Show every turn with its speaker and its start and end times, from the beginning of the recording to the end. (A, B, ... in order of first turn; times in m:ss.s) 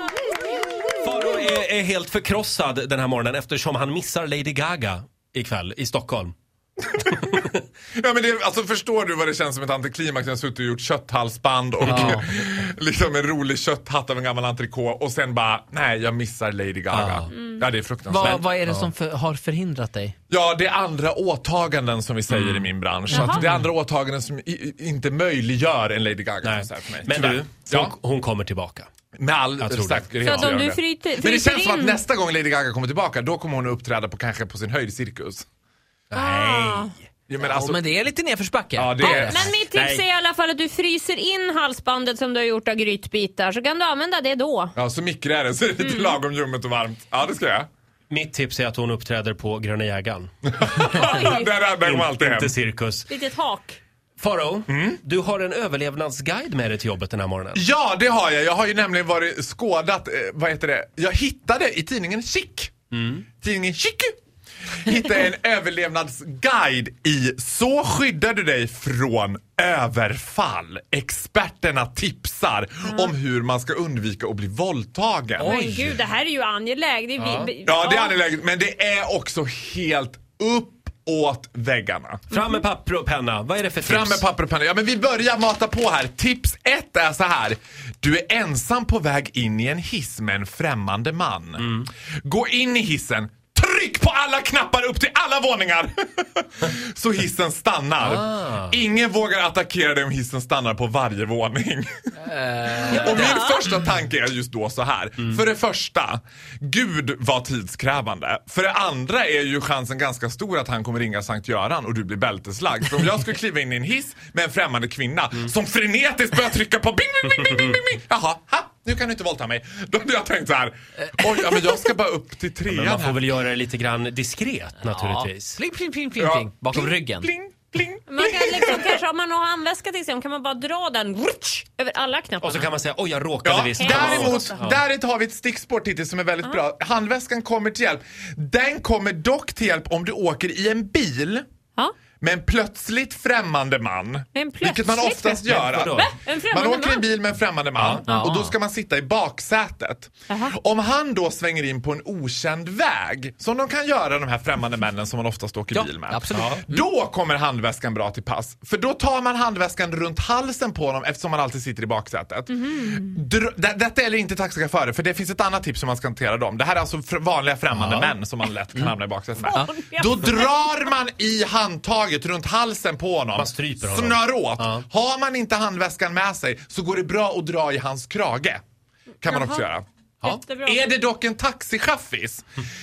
0:00.9-0:06.3 A
0:07.0-0:07.3 B
0:07.0-0:07.4 A
0:08.0-0:18.5 B
0:11.8-0:12.2 C
0:18.1-0:20.1 C
0:18.6-0:18.9 A
0:20.3-0:27.9 B
0:22.3-0:23.6 A
0:23.1-0:23.4 D
0:26.4-0:28.9 A
0:29.2-0:35.4 B
0:29.6-0:30.5 A
0:30.2-0:32.0 D
0:36.1-0:36.9 A
0:36.1-0:36.9 D
0:37.3-0:37.9 B
0:37.4-0:39.5 C
0:38.7-0:39.5 B
0:39.0-0:44.7 D
0:39.7-0:40.0 A
0:44.7-0:47.7 B
0:45.8-0:46.2 D
0:48.1-0:51.0 A
0:50.6-0:52.5 B
0:50.8-0:51.5 D
0:51.8-0:53.1 A
0:53.1-0:53.8 D
0:54.2-0:57.6 A
0:54.7-0:55.0 B
0:57.5-1:02.7 B
1:02.9-1:03.2 A
1:03.4-1:04.2 B
1:04.8-1:15.5 B
1:12.9-1:13.1 D
1:15.4-1:18.2 D
1:15.4-1:15.8 A
1:17.2-1:17.5 A
1:17.6-1:22.2 B
1:22.3-1:24.2 A
1:23.8-1:41.9 B
1:38.1-1:38.6 A
1:42.3-1:42.8 C
1:42.8-2:03.2 B
1:42.9-1:43.6 D
2:02.7-2:05.6 A
2:04.8-2:07.3 C
2:06.2-2:09.0 B
2:08.1-2:12.7 D
2:12.4-2:14.8 A
2:13.4-2:21.4 B
2:13.8-2:14.6 D
2:22.2-2:58.6 B
2:24.3-2:27.0 D
2:25.5-2:26.1 A
2:28.1-2:28.5 C
2:30.3-2:30.6 D
2:35.7-2:36.8 C
2:42.6-2:43.1 D
2:47.7-2:48.1 A
2:49.5-2:50.9 D
2:53.4-2:54.8 A
2:59.2-3:02.4 B
2:59.2-2:59.6 D
3:00.2-3:00.8 D